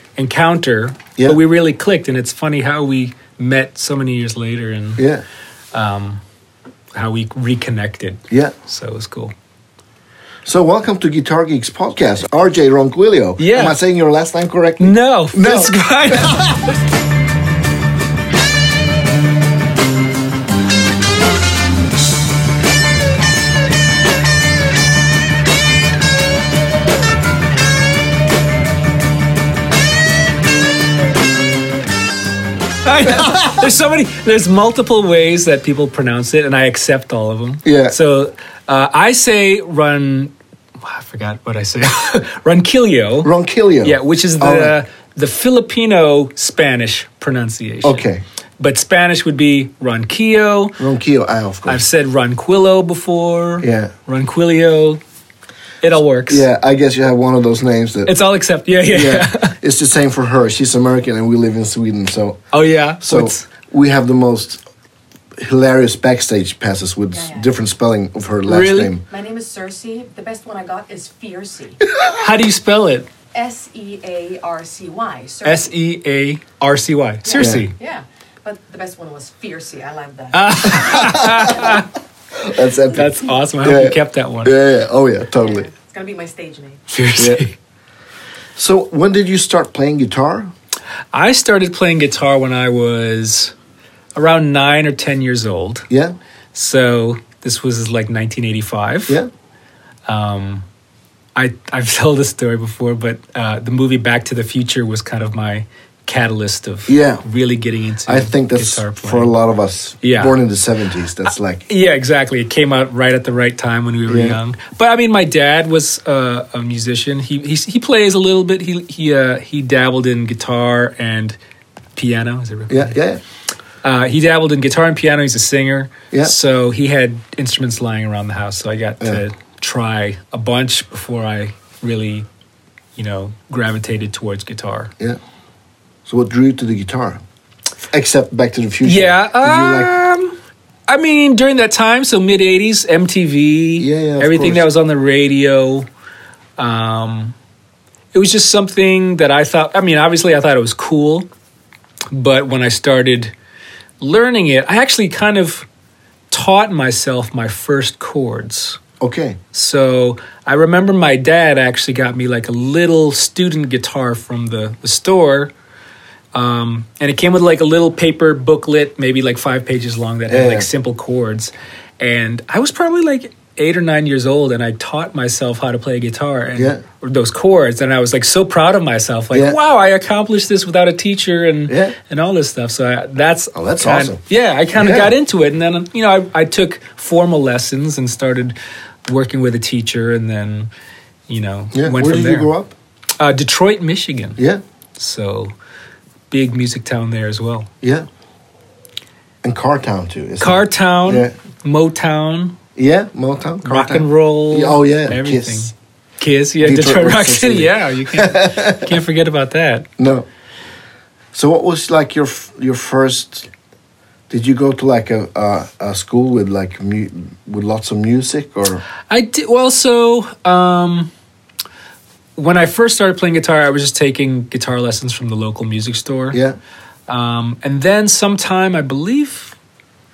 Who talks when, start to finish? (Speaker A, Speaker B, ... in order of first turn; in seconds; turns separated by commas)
Speaker A: 0.2-5.0, Speaker B: 5.0-5.2, Speaker A: 5.7-6.2, Speaker A: 6.9-9.3, Speaker B: 10.4-16.6, Speaker A: 13.4-13.8, Speaker A: 14.8-16.6, Speaker A: 32.8-43.3, Speaker B: 37.6-37.9, Speaker B: 43.2-44.8, Speaker A: 43.8-48.1, Speaker B: 47.8-48.2, Speaker A: 48.6-50.8, Speaker B: 50.8-51.8, Speaker A: 51.6-55.0, Speaker B: 53.6-53.9, Speaker A: 55.8-56.5, Speaker B: 56.3-58.1, Speaker A: 58.0-59.5, Speaker B: 58.9-62.4, Speaker A: 62.5-63.4, Speaker B: 63.0-64.6, Speaker B: 65.4-69.0, Speaker C: 67.1-67.5, Speaker A: 68.5-68.9, Speaker C: 69.1-71.8, Speaker B: 71.9-72.2, Speaker A: 72.1-73.1, Speaker C: 73.3-75.7, Speaker A: 75.4-77.7, Speaker C: 77.2-81.8, Speaker B: 77.3-77.7, Speaker A: 80.3-81.9, Speaker B: 80.7-81.8, Speaker B: 82.3-85.7, Speaker A: 82.9-84.5, Speaker C: 85.3-86.8, Speaker A: 86.9-87.5, Speaker B: 87.2-87.4, Speaker B: 88.5-90.5, Speaker A: 91.1-93.5, Speaker A: 94.1-95.9, Speaker B: 95.9-96.2, Speaker A: 96.5-99.2, Speaker A: 100.1-100.6, Speaker A: 101.3-109.3, Speaker B: 106.9-107.2, Speaker B: 108.0-111.6, Speaker A: 110.0-110.4, Speaker A: 111.2-121.3, Speaker B: 114.1-114.4, Speaker A: 122.0-123.0, Speaker B: 122.7-123.2, Speaker A: 123.8-132.3, Speaker A: 132.9-134.9, Speaker B: 136.1-137.2, Speaker B: 137.9-139.9, Speaker A: 138.8-140.4, Speaker A: 140.9-145.9, Speaker B: 143.8-144.7, Speaker A: 146.6-147.3, Speaker A: 148.1-151.3, Speaker A: 152.1-153.3, Speaker A: 154.0-155.7, Speaker A: 156.3-158.8, Speaker B: 159.0-159.4, Speaker A: 159.5-165.5, Speaker A: 166.3-188.5, Speaker B: 170.3-170.7, Speaker B: 176.6-176.8, Speaker B: 179.3-179.6, Speaker B: 181.7-181.9, Speaker B: 183.5-184.2, Speaker B: 184.7-185.1, Speaker A: 189.1-190.7, Speaker A: 191.3-192.5, Speaker B: 191.7-192.7, Speaker A: 193.2-194.4, Speaker A: 195.0-195.5, Speaker A: 196.3-197.7, Speaker B: 199.4-201.3, Speaker A: 200.4-202.6, Speaker B: 202.8-205.7, Speaker A: 203.6-209.9, Speaker B: 206.6-208.9, Speaker B: 210.0-210.2, Speaker B: 211.3-213.5, Speaker B: 214.3-218.8, Speaker A: 219.1-221.1, Speaker A: 222.3-226.4, Speaker A: 227.1-229.6